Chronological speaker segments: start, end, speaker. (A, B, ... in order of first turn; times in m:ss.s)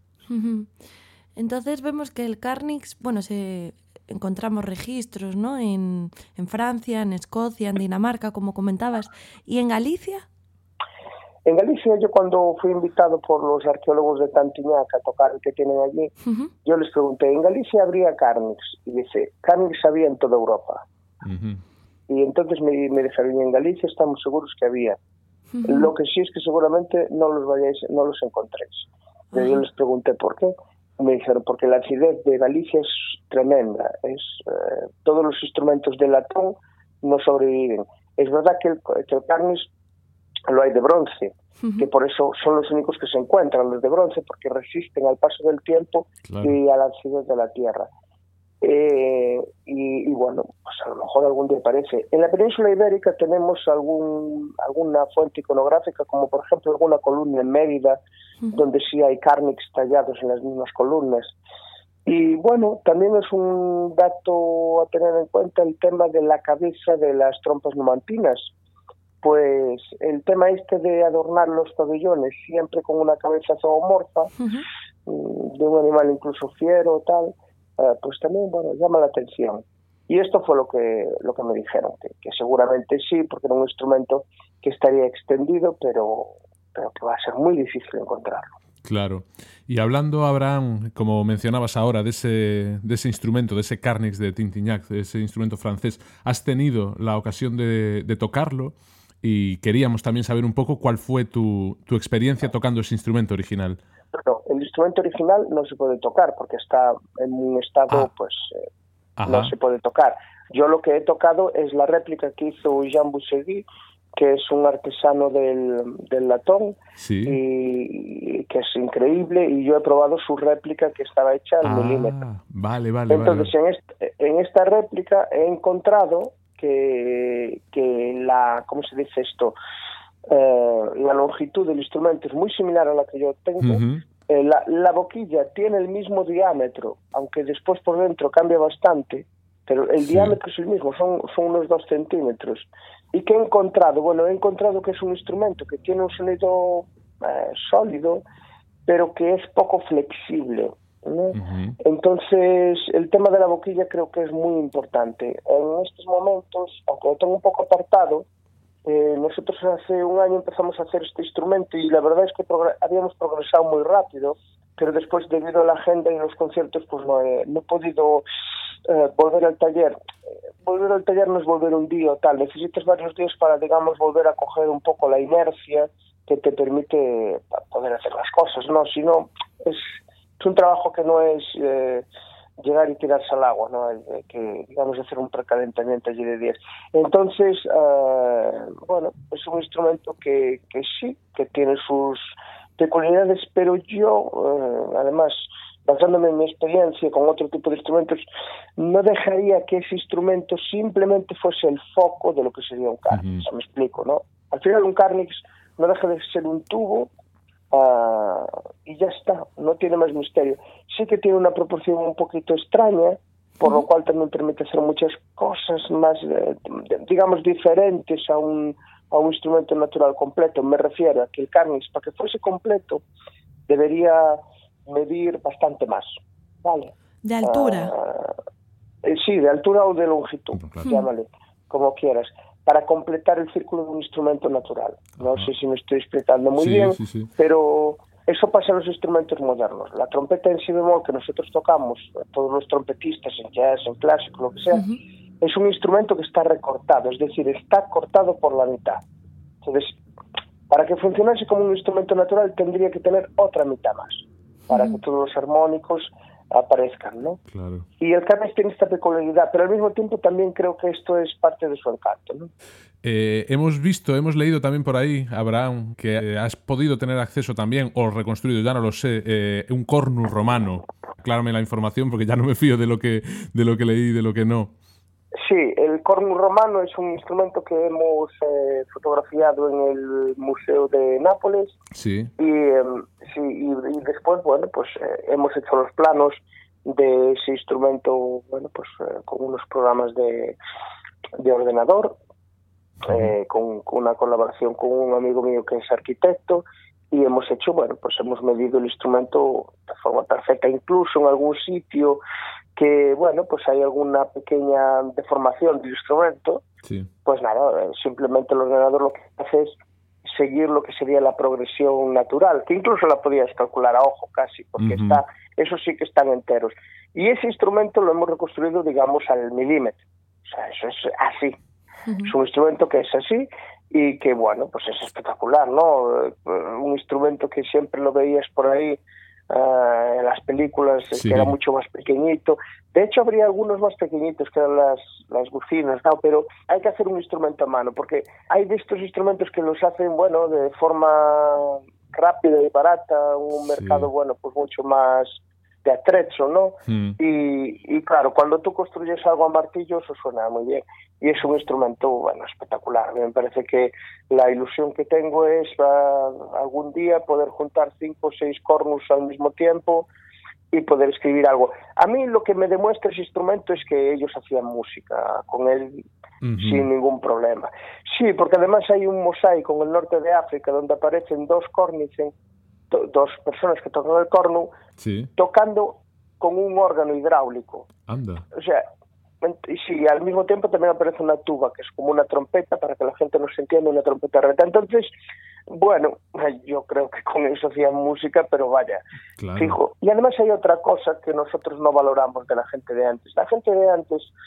0:00.3-0:00.7 A
0:01.4-0:10.2 A
0:11.5-0:16.1 B
0:16.2-0:16.5 A
0:16.6-0:20.8 B
0:21.2-0:21.6 C
0:22.1-0:25.0 B
0:25.5-0:25.9 A
0:25.6-0:39.7 B
0:29.3-0:29.6 A
0:40.5-0:47.9 B
0:46.3-0:46.6 C
0:48.6-0:58.0 B
0:58.5-1:01.3 B
1:02.1-1:08.5 B
1:09.2-1:14.3 B
1:15.1-1:28.5 B
1:28.8-1:43.8 C
1:44.1-1:48.7 B
1:49.2-1:49.5 C
1:49.2-2:02.2 B
1:57.0-1:57.4 C
2:01.6-2:03.5 C
2:03.1-2:09.6 B
2:10.3-2:28.2 B
2:13.6-2:14.0 C
2:20.1-2:20.4 C
2:28.9-2:38.3 B
2:31.3-2:31.8 C
2:38.8-2:48.2 B
2:48.8-2:50.0 B
2:50.6-3:02.0 B
3:02.6-3:18.3 B
3:18.8-3:27.1 B
3:23.1-3:23.4 C
3:27.7-3:43.0 B
3:43.7-3:48.4 B
3:47.2-3:47.9 A
3:49.0-4:04.8 B
3:50.6-3:50.9 C
3:56.6-3:57.3 C
4:05.4-4:09.0 B
4:09.6-4:09.9 B
4:10.7-4:17.4 B
4:14.7-4:15.0 A
4:17.5-4:17.8 C
4:18.0-4:22.5 B
4:23.0-4:34.7 C
4:35.4-4:41.8 B
4:41.9-4:42.3 C
4:42.4-4:50.6 B
4:51.4-4:52.2 B
4:53.0-5:02.2 B
5:02.8-5:06.6 B
5:06.8-5:07.1 C
5:07.2-5:21.6 B
5:14.8-5:15.2 C
5:22.1-5:22.3 A
5:22.2-5:29.0 B
5:29.5-6:00.1 B
5:31.2-5:31.5 C
5:43.8-5:44.1 C
5:46.9-5:47.2 C
6:00.7-6:06.0 B
6:06.4-6:06.9 C
6:06.6-6:12.3 B
6:12.9-6:14.7 B
6:15.0-6:15.3 C
6:15.4-6:17.9 B
6:18.1-6:18.4 C
6:18.5-6:18.9 B
6:19.4-6:25.1 B
6:25.7-6:29.0 B
6:29.4-6:29.8 C
6:29.6-6:34.3 B